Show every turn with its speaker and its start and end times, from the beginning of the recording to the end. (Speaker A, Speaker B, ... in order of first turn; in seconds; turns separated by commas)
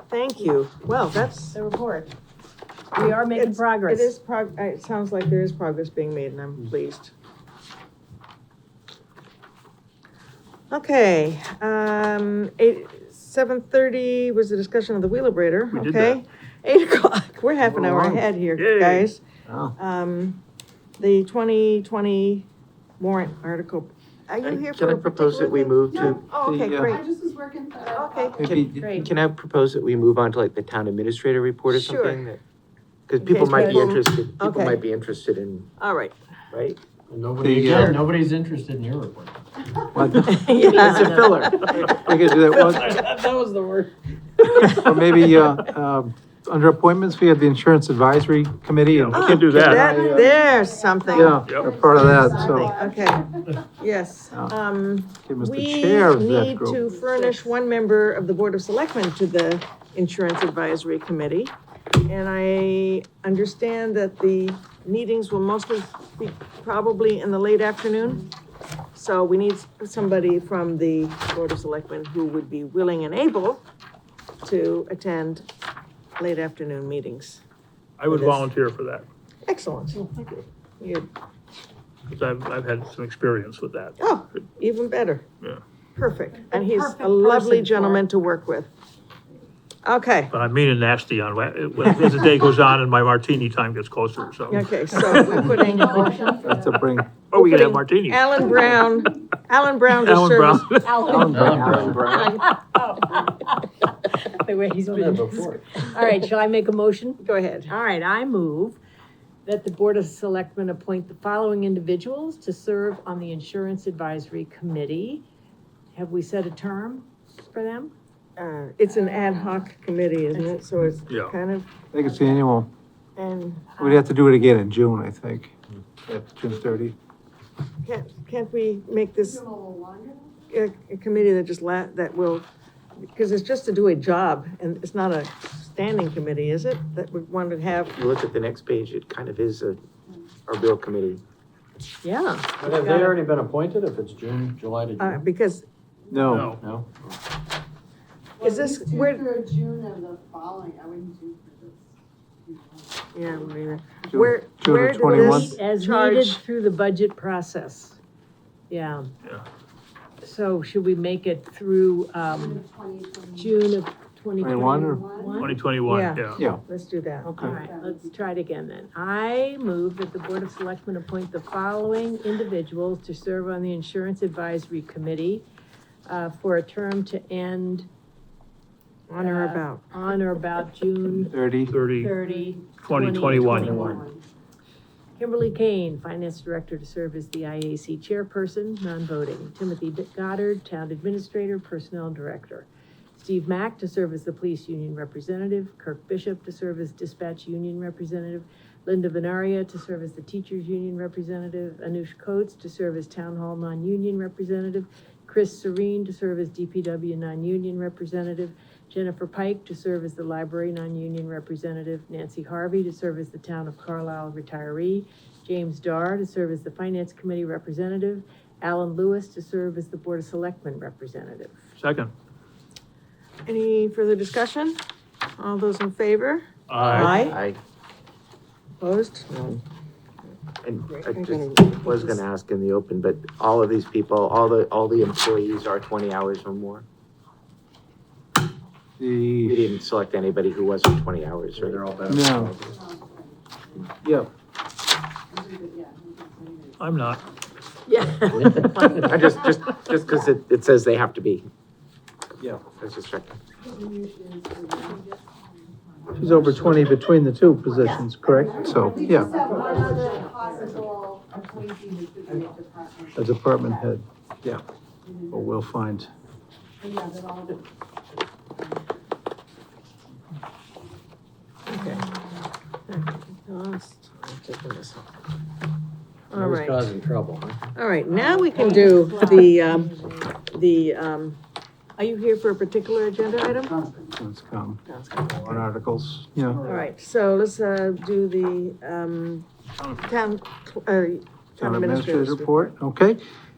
Speaker A: 0.1-1.6, Speaker B: 1.5-2.1, Speaker B: 2.9-4.1, Speaker A: 3.0-7.1, Speaker A: 10.7-19.2, Speaker C: 15.7-16.2, Speaker D: 17.6-18.2, Speaker C: 18.6-19.1, Speaker D: 19.5-19.8, Speaker A: 19.8-20.4, Speaker A: 21.0-22.5, Speaker A: 23.0-27.1, Speaker E: 24.4-26.2, Speaker F: 25.9-26.3, Speaker D: 26.2-27.0, Speaker F: 26.8-28.5, Speaker A: 27.9-28.5, Speaker D: 28.4-29.0, Speaker B: 28.5-29.1, Speaker E: 28.9-32.4, Speaker A: 31.7-32.3, Speaker E: 33.1-35.7, Speaker A: 33.2-34.8, Speaker A: 35.8-36.2, Speaker E: 36.5-36.8, Speaker G: 37.1-39.4, Speaker D: 37.4-38.0, Speaker A: 37.7-38.0, Speaker D: 39.9-40.9, Speaker A: 40.2-42.8, Speaker E: 40.6-41.7, Speaker D: 41.7-43.0, Speaker G: 42.3-45.4, Speaker D: 44.7-50.4, Speaker C: 48.9-49.9, Speaker A: 49.1-61.5, Speaker F: 49.9-53.1, Speaker D: 51.1-52.8, Speaker C: 51.5-51.7, Speaker D: 55.2-56.8, Speaker F: 56.8-57.3, Speaker A: 62.0-68.3, Speaker A: 69.0-73.6, Speaker A: 74.4-75.5, Speaker A: 76.2-77.4, Speaker C: 78.0-79.1, Speaker A: 78.1-78.5, Speaker A: 79.5-81.1, Speaker C: 82.1-84.4, Speaker A: 84.0-85.2, Speaker A: 86.0-88.7, Speaker B: 86.5-88.1, Speaker A: 89.8-90.3, Speaker C: 90.3-95.6, Speaker A: 94.5-96.4, Speaker F: 95.6-96.5, Speaker D: 96.4-97.1, Speaker C: 97.3-98.6, Speaker A: 97.3-101.3, Speaker C: 99.9-101.1, Speaker B: 100.8-108.8, Speaker D: 101.1-102.0, Speaker G: 101.1-102.4, Speaker G: 104.8-105.9, Speaker A: 107.2-107.7, Speaker B: 109.5-115.2, Speaker B: 115.9-117.9, Speaker A: 118.4-121.7, Speaker C: 121.1-121.3, Speaker D: 121.9-122.7, Speaker A: 123.2-123.8, Speaker B: 123.8-124.0, Speaker D: 123.8-127.0, Speaker A: 127.8-129.4, Speaker F: 129.3-130.4, Speaker A: 130.5-132.5, Speaker A: 133.1-137.9, Speaker E: 137.9-139.8, Speaker E: 140.5-141.2, Speaker B: 142.0-143.2, Speaker G: 142.6-145.2, Speaker A: 145.0-145.7, Speaker D: 146.1-146.6, Speaker C: 146.3-146.6, Speaker G: 146.4-147.1, Speaker A: 148.4-149.4, Speaker F: 148.4-151.9, Speaker F: 152.5-153.3, Speaker A: 153.1-156.4, Speaker D: 154.1-155.6, Speaker B: 155.0-158.0, Speaker B: 158.7-159.1, Speaker B: 160.2-162.6, Speaker F: 162.3-163.5, Speaker B: 163.4-165.6, Speaker D: 164.4-165.0, Speaker F: 164.4-165.5, Speaker C: 165.4-166.4, Speaker A: 165.8-167.3, Speaker B: 167.2-175.5, Speaker D: 167.3-167.6, Speaker F: 167.4-168.0, Speaker B: 176.1-177.9, Speaker A: 179.1-180.1, Speaker B: 179.2-181.4, Speaker D: 181.2-181.7, Speaker C: 181.7-182.1, Speaker B: 182.0-184.0, Speaker C: 182.8-184.0, Speaker F: 183.1-184.2, Speaker G: 183.3-183.7, Speaker B: 185.2-221.6, Speaker C: 221.8-222.1, Speaker A: 223.5-224.8, Speaker A: 225.4-227.4, Speaker C: 226.7-227.2, Speaker E: 227.1-227.6, Speaker A: 228.8-229.6, Speaker E: 230.6-236.8, Speaker A: 230.9-232.2, Speaker D: 239.0-239.7, Speaker E: 239.5-241.9, Speaker G: 241.6-242.8, Speaker D: 242.1-242.6, Speaker F: 242.7-243.9, Speaker D: 244.0-244.3, Speaker F: 245.3-246.8, Speaker C: 246.8-247.2, Speaker B: 247.9-249.2, Speaker G: 248.4-249.1, Speaker E: 249.0-251.5, Speaker E: 252.7-253.4, Speaker F: 253.7-255.3, Speaker F: 256.0-256.9, Speaker D: 256.2-259.4, Speaker F: 258.2-263.8, Speaker B: 259.4-260.0, Speaker D: 263.1-264.6, Speaker D: 265.3-266.1, Speaker F: 266.8-267.6, Speaker A: 271.7-272.1, Speaker A: 272.9-275.1, Speaker A: 276.3-276.8, Speaker G: 276.3-277.6, Speaker A: 277.8-281.4, Speaker B: 278.1-280.3, Speaker A: 282.0-283.8, Speaker D: 284.0-284.8, Speaker A: 284.9-285.6, Speaker D: 285.4-286.6, Speaker A: 286.6-289.5, Speaker A: 290.0-292.7, Speaker D: 291.6-293.2